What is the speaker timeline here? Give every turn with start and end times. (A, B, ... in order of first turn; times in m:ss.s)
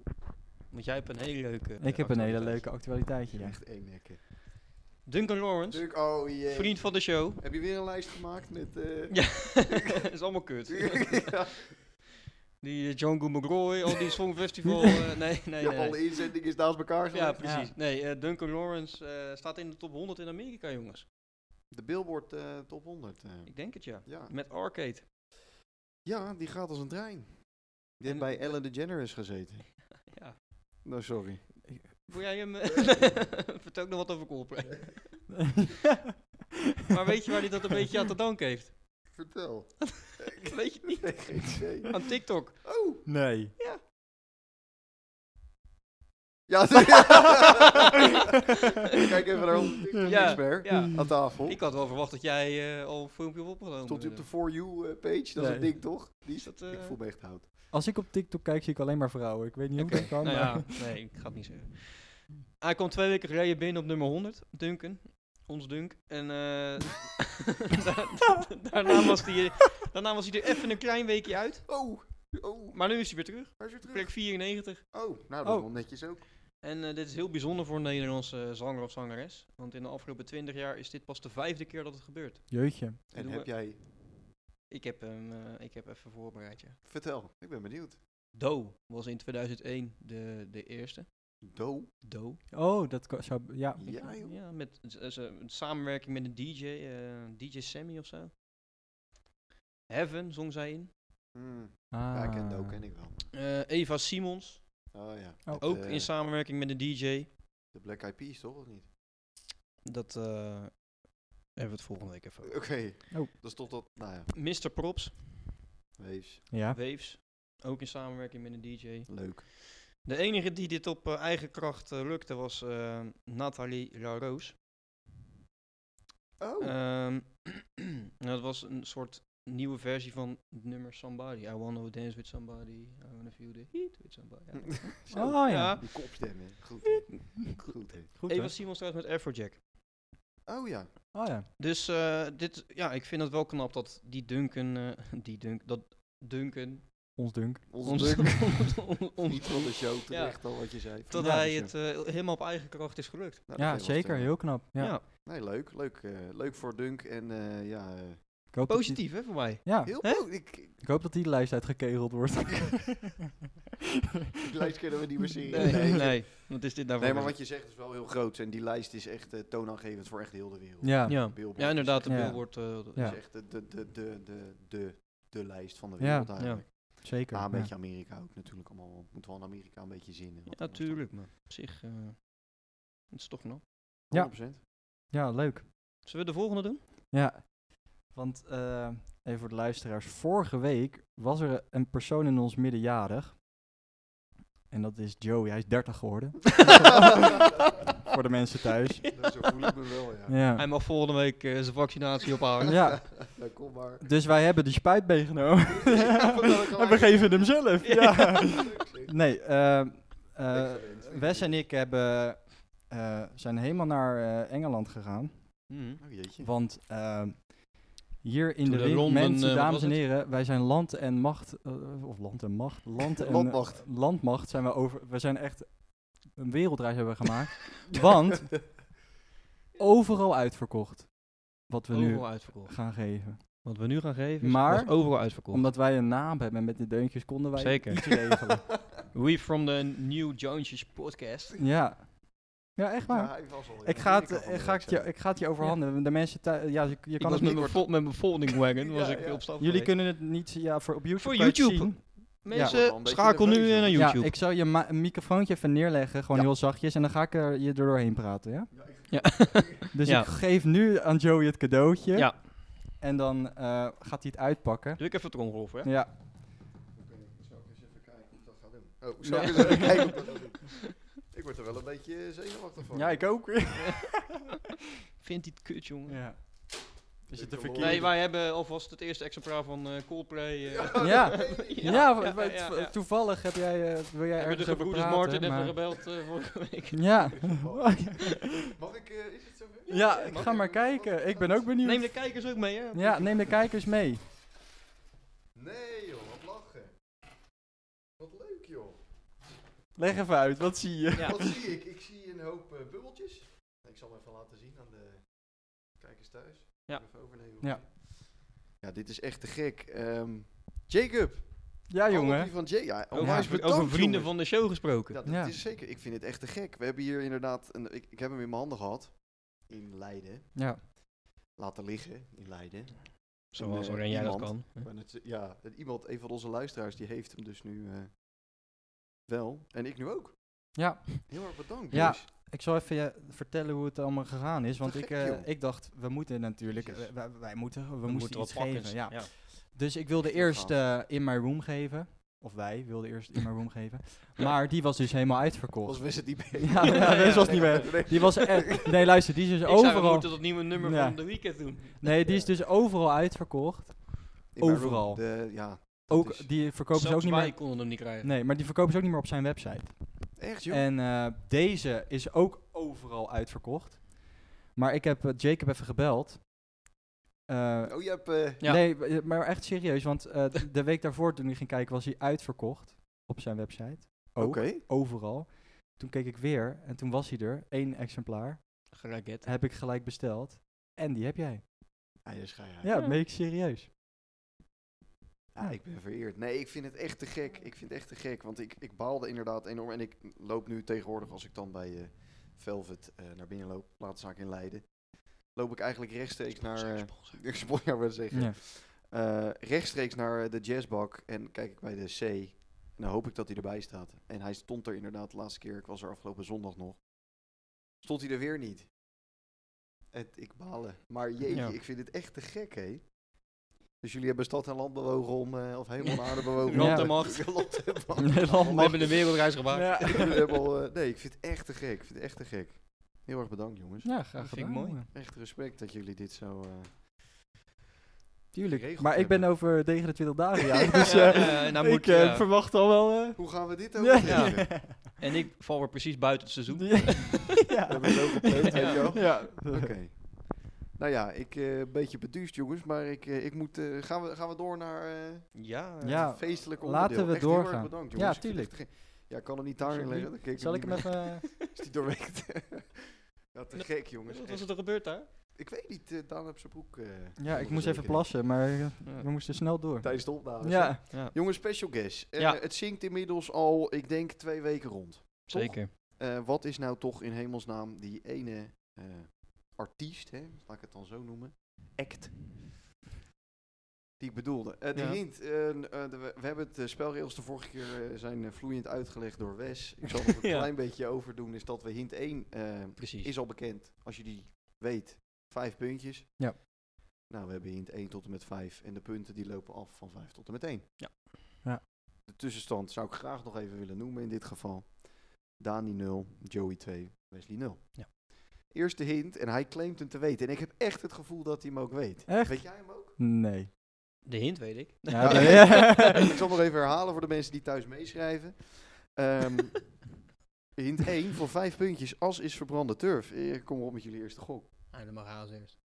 0:00.7-0:02.6 A
0:01.8-0:03.6 B
0:02.0-0:04.2 C
0:05.0-0:07.4 A
0:05.7-0:10.0 C
0:09.1-0:11.8 A
0:10.7-0:11.7 C
0:12.6-0:16.5 A
0:15.6-0:17.7 C
0:17.1-0:21.1 A
0:17.4-0:17.7 B
0:21.7-0:24.3 C
0:23.5-0:25.1 A
0:26.0-0:29.8 C
0:28.1-0:28.6 A
0:30.0-0:30.4 A
0:30.8-0:32.1 C
0:32.1-0:35.3 A
0:35.3-0:36.3 B
0:36.9-0:39.2 A
0:39.1-0:43.1 C
0:40.2-0:43.8 A
0:43.1-0:43.6 B
0:46.5-0:47.8 C
0:48.8-0:51.6 C
0:50.0-0:51.1 B
0:50.0-0:54.3 A
0:53.8-0:57.4 C
0:55.4-0:55.8 B
0:56.4-0:57.0 A
0:57.7-1:00.9 B
0:59.8-1:12.1 A
1:11.7-1:13.0 C
1:12.7-1:14.9 A
1:13.6-1:16.2 C
1:15.4-1:15.7 B
1:16.6-1:23.6 A
1:22.5-1:23.0 B
1:23.1-1:23.8 C
1:24.7-1:26.8 A
1:26.8-1:28.0 C
1:28.3-1:31.5 A
1:31.4-1:31.9 C
1:32.0-1:32.4 A
1:32.5-1:33.9 B
1:33.8-1:34.4 C
1:33.8-1:38.3 A
1:39.9-1:40.9 A
1:41.3-1:43.3 C
1:41.9-1:42.8 B
1:43.3-1:47.3 A
1:44.9-1:46.1 C
1:47.7-1:48.9 C
1:49.8-1:52.8 A
1:52.4-1:54.3 C
1:54.3-1:55.5 A
1:56.0-1:56.5 C
1:56.5-1:56.8 B
1:56.7-2:04.5 A
1:59.1-1:59.4 C
2:06.4-2:06.8 C
2:06.6-2:19.6 A
2:14.8-2:18.1 C
2:15.1-2:15.8 B
2:18.2-2:18.6 B
2:20.5-2:21.1 C
2:21.1-2:21.5 B
2:21.6-2:33.4 A
2:27.2-2:28.2 B
2:27.7-2:31.7 C
2:31.2-2:31.5 B
2:33.5-2:38.4 C
2:33.6-2:35.0 B
2:34.8-2:35.0 A
2:38.5-2:43.2 B
2:38.7-2:40.2 A
2:39.8-2:40.8 C
2:44.4-3:01.2 C
2:45.5-2:47.4 A
2:50.8-2:51.4 B
2:51.1-2:53.1 A
2:52.0-2:53.2 B
2:56.0-2:57.7 B
2:56.4-2:56.6 A
3:00.5-3:03.6 A
3:04.1-3:04.6 C
3:04.1-3:05.7 B
3:06.0-3:06.8 A
3:07.1-3:13.4 B
3:14.7-3:17.4 B
3:18.1-3:19.2 B
3:19.0-3:19.3 A
3:19.1-3:20.4 C
3:20.3-3:20.6 B
3:20.6-3:23.1 A
3:22.7-3:48.8 B
3:23.1-3:24.1 C
3:25.6-3:27.9 C
3:27.8-3:28.5 A
3:28.4-3:29.2 C
3:30.5-3:31.6 C
3:35.7-3:36.0 A
3:36.0-3:36.5 C
3:38.6-3:40.0 A
3:43.2-3:43.8 C
3:49.8-3:53.9 B
3:51.9-3:55.6 A
3:54.4-3:58.8 B
3:57.6-3:58.1 A
3:59.0-4:01.6 A
4:01.6-4:07.7 B
4:03.0-4:05.1 C
4:07.2-4:10.0 A
4:07.4-4:09.5 C
4:09.6-4:12.8 B
4:11.2-4:14.3 A
4:12.5-4:14.2 C
4:13.9-4:19.2 B
4:18.7-4:19.9 C
4:19.1-4:20.3 A
4:19.9-4:26.1 B
4:22.1-4:22.5 A
4:25.0-4:25.9 A
4:26.9-4:33.6 C
4:29.3-4:30.1 B
4:29.3-4:30.2 A
4:32.9-4:34.3 B
4:33.8-4:34.4 A
4:35.2-4:36.2 A
4:36.1-4:38.1 B
4:37.3-4:38.2 C
4:37.8-4:43.0 A
4:40.7-4:42.1 C
4:41.0-4:45.8 B
4:44.4-4:47.4 A
4:46.9-4:48.7 B
4:47.2-4:51.8 C
4:49.9-4:50.6 A
4:49.9-4:54.2 B
4:51.8-4:53.6 A
4:55.5-4:57.0 C
4:58.2-4:59.0 C
5:00.0-5:01.6 B
5:01.2-5:21.0 C
5:11.9-5:13.5 B
5:13.1-5:15.2 A
5:15.3-5:15.6 B
5:20.6-5:20.8 B
5:21.6-5:32.2 C
5:23.5-5:24.9 A
5:30.8-6:06.5 B
5:34.8-5:35.5 C
5:36.7-5:37.1 C
5:38.1-5:39.3 A
5:40.1-5:40.9 C
5:45.8-5:48.9 C
5:46.9-5:48.3 A
5:49.6-5:52.2 A
5:52.2-5:52.5 C
5:54.5-5:56.6 C
5:56.9-5:58.3 A
6:00.4-6:00.9 C
6:07.5-6:21.7 B
6:07.8-6:08.6 C
6:14.4-6:14.8 C
6:18.9-6:19.5 A
6:22.2-6:22.9 C
6:22.8-6:23.9 B
6:25.5-6:48.9 C
6:36.5-6:37.4 A
6:38.3-6:38.6 B
6:50.1-7:04.1 C
6:56.1-6:58.1 A
6:56.7-6:57.6 B
6:58.2-7:00.4 B
6:58.6-7:00.4 A
7:04.0-7:05.1 B
7:04.4-7:05.0 A
7:05.1-7:07.6 C
7:08.5-7:15.0 B
7:08.6-7:09.6 C
7:10.9-7:11.4 C
7:11.0-7:12.5 A
7:13.4-7:14.8 C
7:14.2-7:17.6 A
7:16.7-7:19.9 B
7:17.9-7:38.4 C
7:18.7-7:19.3 A
7:25.5-7:26.4 A
7:26.0-7:29.0 B
7:29.9-7:31.5 B
7:33.7-7:35.3 A
7:37.4-7:41.0 B
7:40.0-7:52.7 C
7:41.1-7:42.6 A
7:45.5-7:45.9 A
7:54.2-8:06.7 C
7:54.9-7:55.2 A
8:03.0-8:03.3 A
8:07.3-8:10.9 C
8:11.0-8:11.3 A
8:12.2-8:23.2 C
8:22.3-8:23.7 B
8:24.2-8:26.1 A
8:25.1-8:26.2 B
8:25.2-8:30.1 C
8:30.8-8:34.7 C
8:34.9-8:35.8 A